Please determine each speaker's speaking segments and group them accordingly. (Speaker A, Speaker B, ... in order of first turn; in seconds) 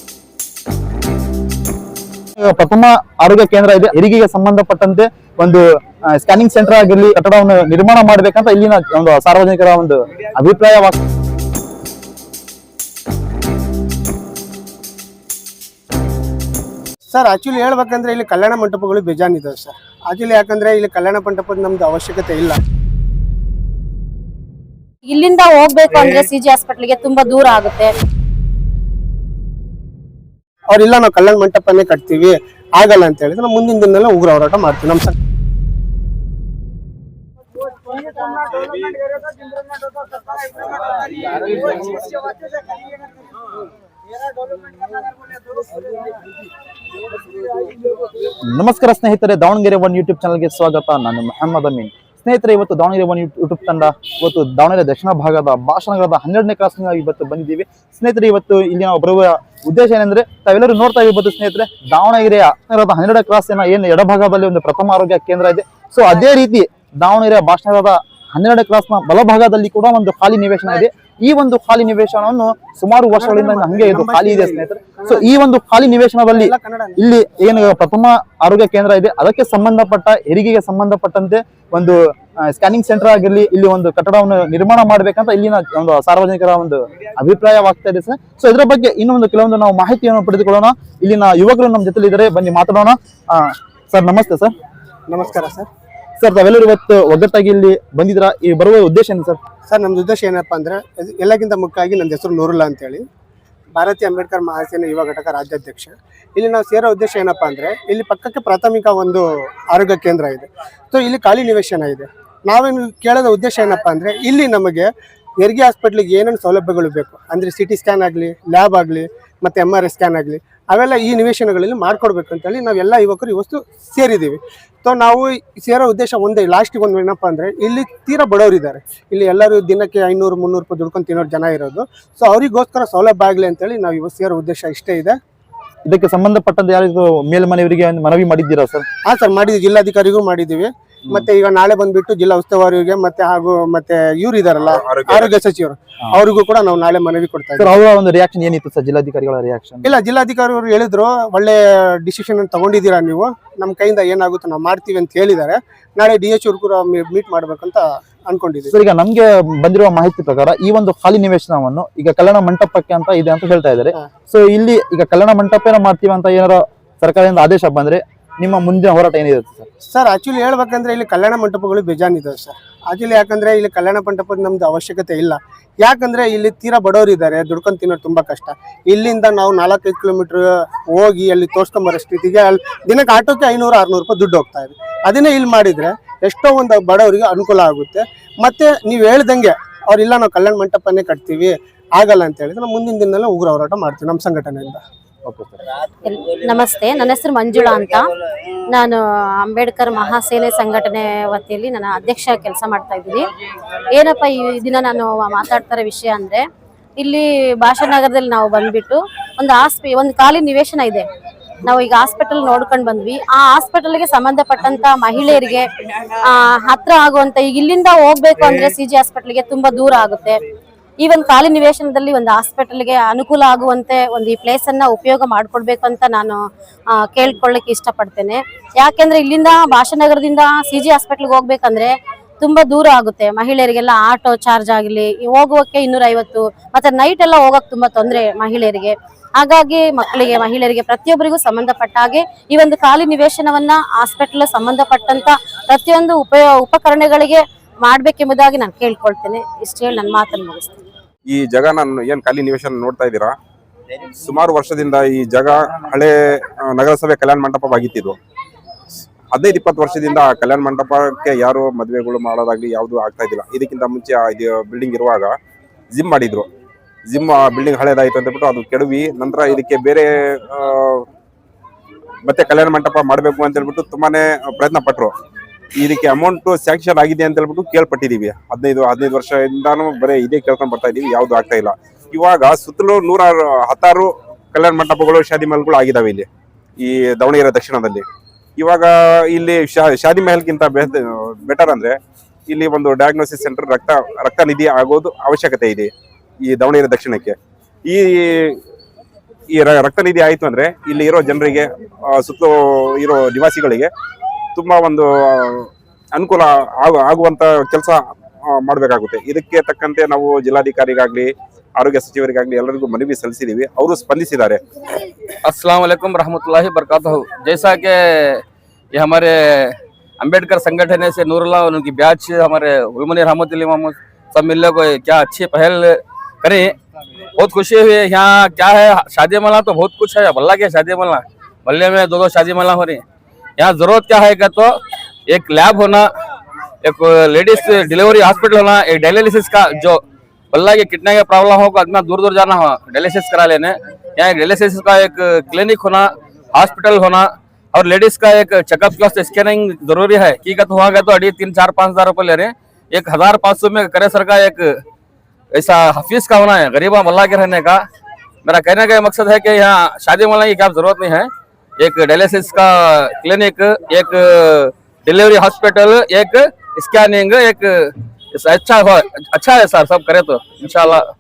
Speaker A: 2.4-11.0, 48.5-94.5, 96.2-99.4, 135.8-138.9, 147.6-149.9, 158.7-169.7, 195.3-195.6
Speaker B: 17.1-22.6, 30.7-35.1, 73.2-75.3, 76.3-77.0, 95.1-95.7, 99.7-103.1, 103.8-114.9, 115.4-135.2, 139.1-147.8, 149.8-158.7, 169.9-194.8
Speaker C: 25.1-27.9, 196.0-198.1, 198.7-203.3, 203.9-206.4, 207.0-211.1, 211.6-220.4, 221.0-226.4, 226.9-250.8
Speaker D: 144.7-145.3, 251.3-253.3, 254.2-258.2, 259.3-265.3, 265.9-266.5, 267.1-271.0, 272.3-275.1, 275.8-286.3, 286.8-288.0, 288.6-292.0, 292.5-295.9, 296.5-298.6, 299.5-303.9, 304.6-314.6
Speaker E: 315.4-326.8, 327.4-333.0, 333.6-336.1, 336.8-354.8, 355.5-357.9, 358.4-371.1